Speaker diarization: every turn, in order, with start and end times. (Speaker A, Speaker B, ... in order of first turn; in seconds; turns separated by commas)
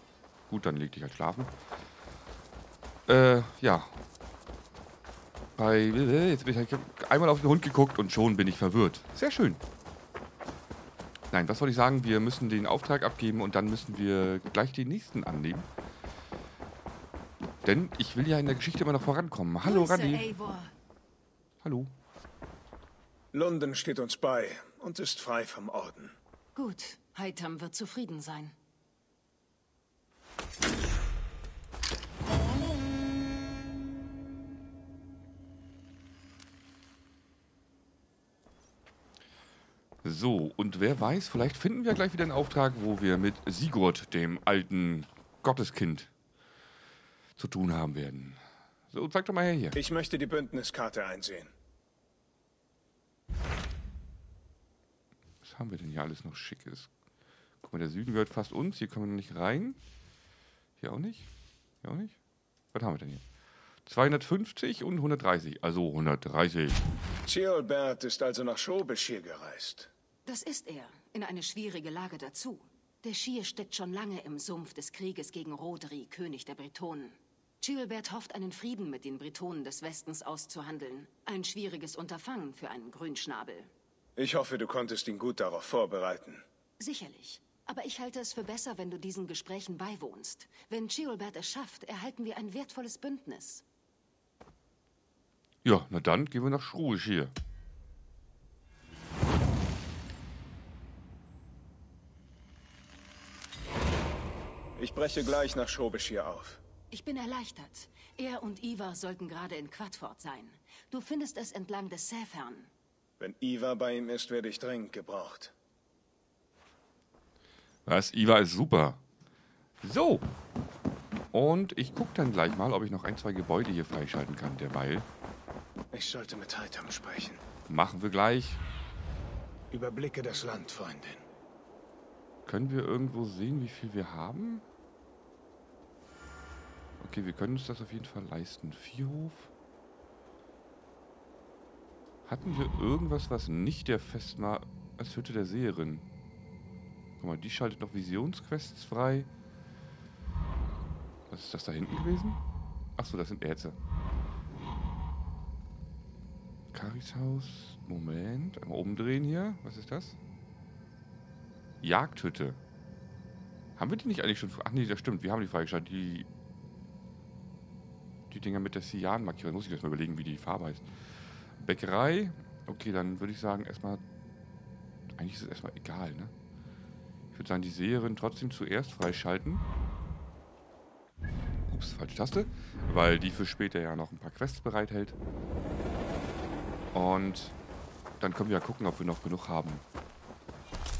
Speaker A: 0.5-1.5, Speaker A: 3.1-3.9, Speaker A: 5.6-9.6, Speaker A: 11.3-15.7, Speaker A: 17.6-20.3, Speaker B: 19.6-20.7, Speaker A: 21.6-21.9, Speaker C: 23.3-26.1, Speaker B: 26.5-28.5, Speaker A: 40.0-46.1, Speaker A: 47.4-48.4, Speaker A: 48.9-49.8, Speaker C: 49.7-51.5, Speaker A: 55.4-56.9, Speaker A: 57.6-59.8, Speaker A: 60.8-61.3, Speaker A: 61.8-62.2, Speaker A: 62.7-63.2, Speaker A: 63.9-66.8, Speaker C: 67.2-69.9, Speaker B: 70.3-83.7, Speaker C: 84.2-86.4, Speaker B: 86.8-93.6, Speaker A: 95.6-97.3, Speaker C: 104.8-106.6, Speaker B: 106.9-112.7, Speaker C: 113.2-115.5, Speaker A: 117.9-119.0, Speaker A: 119.8-120.2, Speaker A: 121.3-125.1, Speaker C: 125.9-127.4, Speaker A: 127.7-128.6, Speaker C: 129.7-131.2, Speaker A: 132.4-134.6, Speaker A: 137.0-139.5, Speaker A: 142.2-146.0, Speaker A: 147.2-149.3, Speaker A: 151.3-152.4, Speaker A: 152.9-153.8, Speaker A: 156.7-160.2, Speaker A: 161.8-162.6, Speaker A: 163.8-166.3, Speaker A: 168.3-170.9, Speaker A: 171.6-174.0, Speaker A: 175.2-176.3, Speaker A: 177.3-179.6, Speaker A: 181.7-185.2, Speaker A: 186.9-187.6, Speaker A: 188.2-189.8